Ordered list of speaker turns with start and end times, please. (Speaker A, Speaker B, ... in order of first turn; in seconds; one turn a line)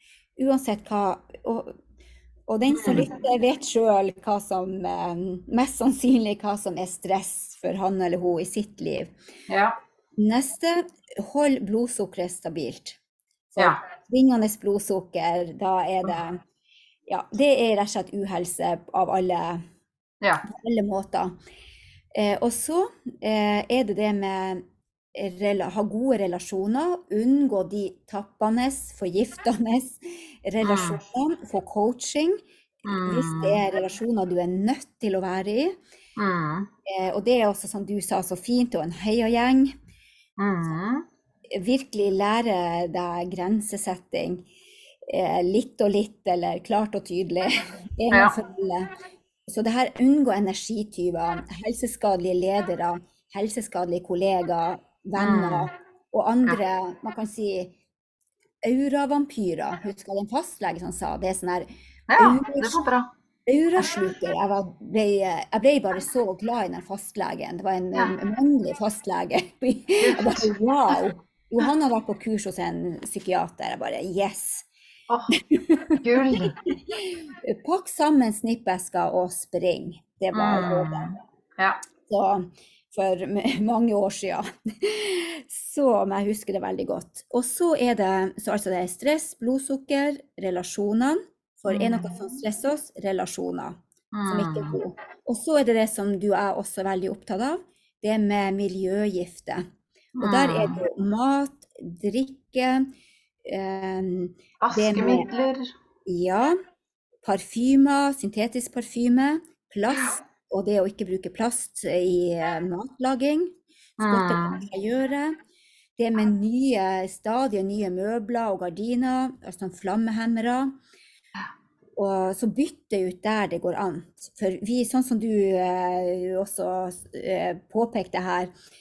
Speaker A: 0.4-1.7
Speaker A: 2.5-9.1
Speaker B: 2.7-3.1
Speaker B: 9.5-9.8
Speaker A: 10.2-13.0
Speaker A: 13.5-16.4
Speaker A: 17.1-19.6
Speaker A: 20.4-21.3
Speaker A: 22.1-24.6
Speaker A: 25.1-35.8
Speaker B: 30.6-31.0
Speaker B: 32.9-33.6
Speaker B: 36.2-36.7
Speaker A: 36.8-39.7
Speaker B: 40.4-41.0
Speaker A: 41.5-44.4
Speaker A: 45.1-48.9
Speaker A: 49.5-57.7
Speaker B: 55.2-55.7
Speaker A: 58.6-61.6
Speaker B: 62.1-63.1
Speaker A: 62.2-62.8
Speaker A: 63.5-74.7
Speaker B: 70.0-71.0
Speaker B: 75.1-75.3
Speaker A: 75.4-81.2
Speaker B: 76.0-76.5
Speaker B: 80.3-81.8
Speaker A: 82.1-99.6
Speaker B: 91.7-92.1
Speaker B: 94.1-94.8
Speaker B: 100.2-100.8
Speaker A: 100.2-102.9
Speaker A: 103.4-105.3
Speaker B: 104.6-105.7
Speaker A: 106.0-106.6
Speaker A: 107.2-115.4
Speaker B: 114.0-114.6
Speaker A: 116.0-120.7
Speaker A: 122.0-128.5